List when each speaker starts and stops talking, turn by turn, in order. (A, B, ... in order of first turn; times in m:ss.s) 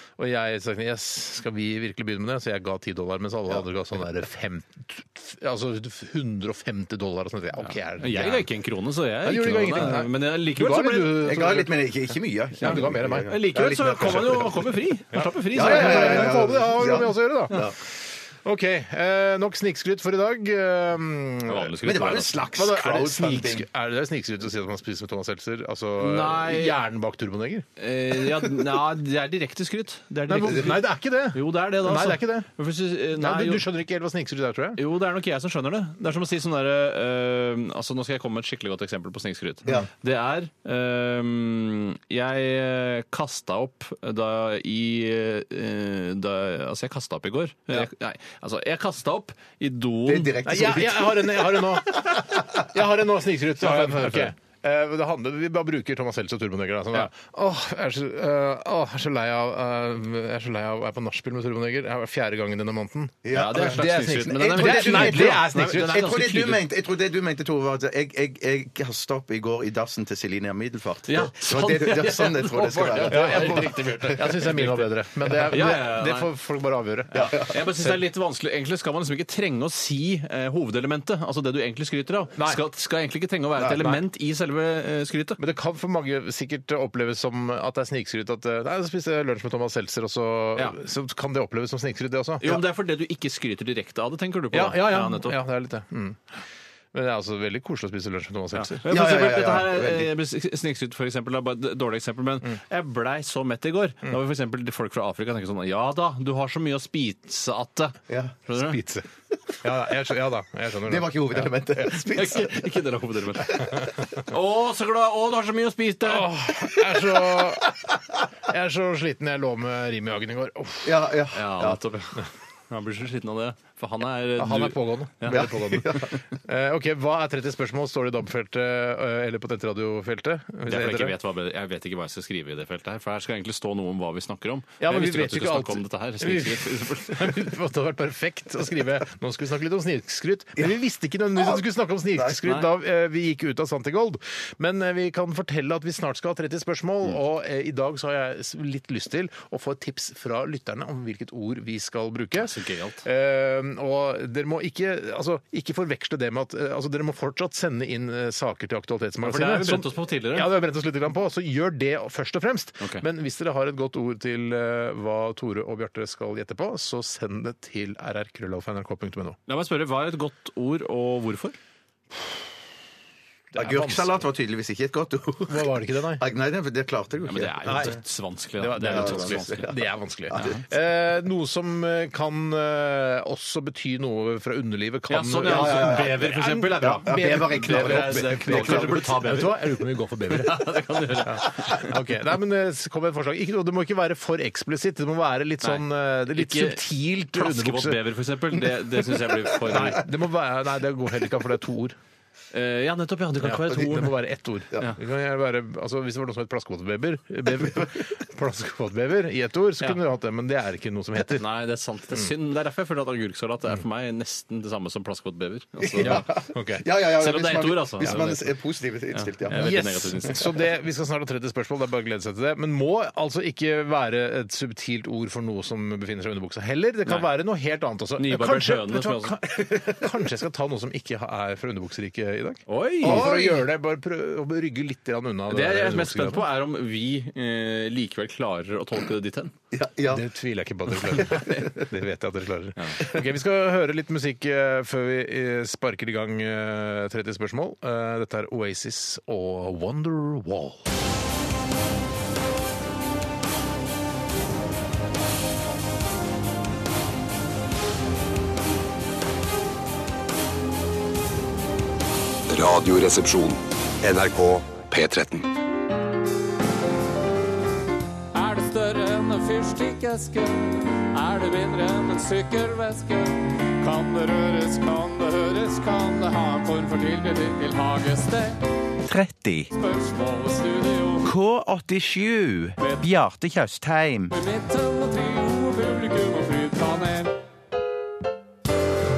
0:00.2-0:08.5 A
0:07.6-0:11.6 B
0:09.2-0:11.7 A
0:11.2-0:14.7 C
0:12.6-0:13.3 A
0:12.6-0:16.3 B
0:14.0-0:14.5 A
0:15.1-0:27.6 A
0:15.5-0:17.7 C
0:21.5-0:22.4 B
0:21.8-0:23.7 C
0:26.0-0:26.8 B
0:27.8-0:33.6 B
0:30.3-0:32.5 A
0:33.1-0:34.8 A
0:34.8-0:50.7 B
0:50.0-0:52.4 C
0:50.4-1:06.6 A
0:53.6-0:54.3 B
1:03.2-1:14.5 C
1:03.3-1:06.3 B
1:11.1-1:16.3 B
1:13.0-1:18.0 A
1:17.1-1:17.5 C
1:17.2-1:25.4 B
1:22.4-1:22.6 A
1:23.6-1:24.0 C
1:25.4-1:32.5 A
1:32.4-1:35.4 B
1:34.5-1:36.4 A
1:36.9-1:38.9 A
1:38.5-1:48.8 B
1:38.9-1:40.1 C
1:48.1-1:48.4 C
1:48.6-1:49.0 A
1:49.6-1:51.9 A
1:50.9-1:52.6 C
1:52.0-1:56.3 B
1:56.0-1:57.8 A
1:58.4-2:01.1 A
2:00.8-2:01.8 C
2:01.3-2:05.5 B
2:04.4-2:11.1 A
2:05.3-2:06.2 C
2:10.7-2:17.5 B
2:14.8-2:49.4 A
2:22.2-2:22.4 C
2:32.4-2:33.0 B
2:39.2-2:40.5 B
2:42.8-2:43.0 B
2:49.5-2:51.6 B
2:53.5-2:54.2 A
2:53.5-2:58.0 C
2:55.5-2:56.2 A
2:57.2-2:59.7 B
2:58.6-3:18.0 A
2:58.8-3:00.6 C
3:05.1-3:09.6 B
3:05.4-3:09.2 C
3:10.3-3:11.9 B
3:15.6-3:16.8 B
3:17.3-3:20.0 B
3:19.6-3:22.0 A
3:22.5-3:24.1 B
3:23.4-3:31.4 A
3:31.3-3:36.3 B
3:35.8-3:40.3 C
3:36.0-3:36.8 A
3:37.2-3:38.4 B
3:38.0-3:38.4 A
3:39.1-3:40.5 B
3:39.5-3:56.4 A
3:48.2-3:49.4 B
3:49.6-3:50.1 C
3:52.7-3:53.3 B
3:53.0-3:53.7 C
3:55.5-3:59.5 B
3:59.7-4:00.2 C
4:00.1-4:10.8 A
4:01.2-4:01.7 C
4:22.5-4:25.5 D
4:28.3-4:38.6 E
4:39.0-4:39.7 C
4:39.7-4:41.3 E
4:41.2-4:44.3 C
4:44.3-4:47.3 E